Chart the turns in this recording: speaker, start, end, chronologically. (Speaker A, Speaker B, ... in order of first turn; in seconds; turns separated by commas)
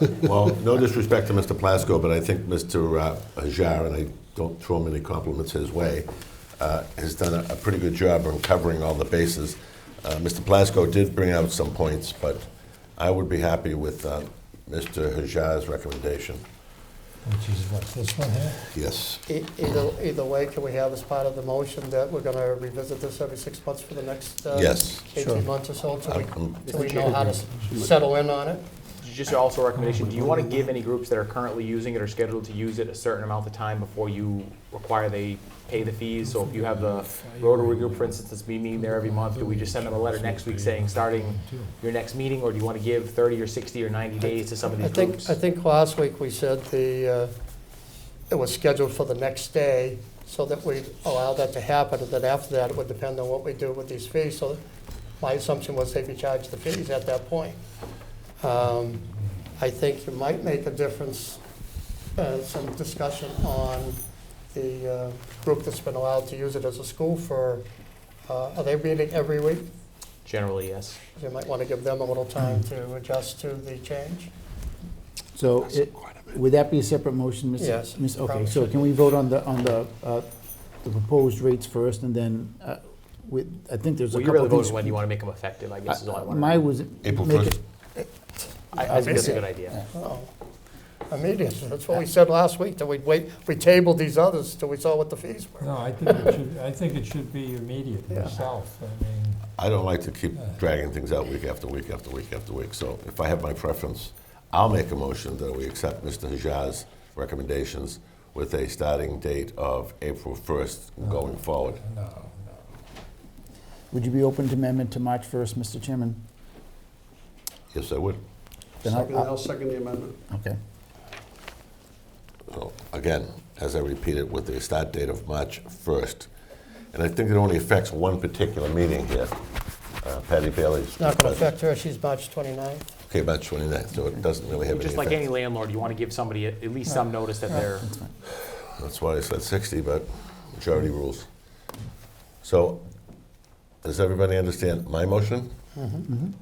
Speaker A: 0.2-12.4, Speaker A: 13.0-16.4, Speaker B: 17.2-18.6, Speaker A: 18.7-19.2, Speaker C: 19.3-28.6, Speaker A: 24.5-25.0, Speaker A: 26.0-26.7, Speaker D: 26.6-27.4, Speaker E: 26.9-27.9, Speaker D: 29.0-45.3, Speaker B: 29.8-30.0, Speaker E: 30.0-30.7, Speaker B: 36.2-38.1, Speaker B: 38.8-41.7, Speaker C: 44.6-47.3, Speaker C: 48.3-54.6, Speaker C: 55.2-57.6, Speaker C: 58.4-61.4, Speaker C: 62.2-64.0, Speaker C: 64.5-67.6, Speaker C: 68.2-69.7, Speaker D: 70.2-71.0, Speaker C: 71.1-74.3, Speaker F: 75.3-80.3, Speaker C: 77.6-78.9, Speaker F: 80.8-85.0, Speaker D: 84.1-86.7, Speaker F: 85.9-88.1, Speaker A: 87.0-87.5, Speaker D: 88.7-89.8, Speaker F: 88.8-89.8, Speaker C: 88.8-90.3, Speaker C: 91.1-96.4, Speaker B: 95.6-99.4, Speaker C: 98.1-98.4, Speaker A: 99.6-111.8, Speaker B: 111.8-112.6, Speaker F: 113.9-116.2, Speaker A: 117.7-118.2, Speaker F: 118.8-119.3, Speaker E: 118.8-120.2, Speaker F: 120.3-120.6, Speaker A: 122.5-126.3, Speaker A: 126.9-129.3, Speaker A: 130.0-131.5, Speaker C: 131.0-132.8, Speaker A: 133.1-135.2, Speaker D: 134.7-137.9, Speaker F: 137.7-138.1, Speaker A: 138.8-141.2, Speaker A: 142.4-142.9, Speaker A: 143.8-145.5, Speaker C: 145.7-146.1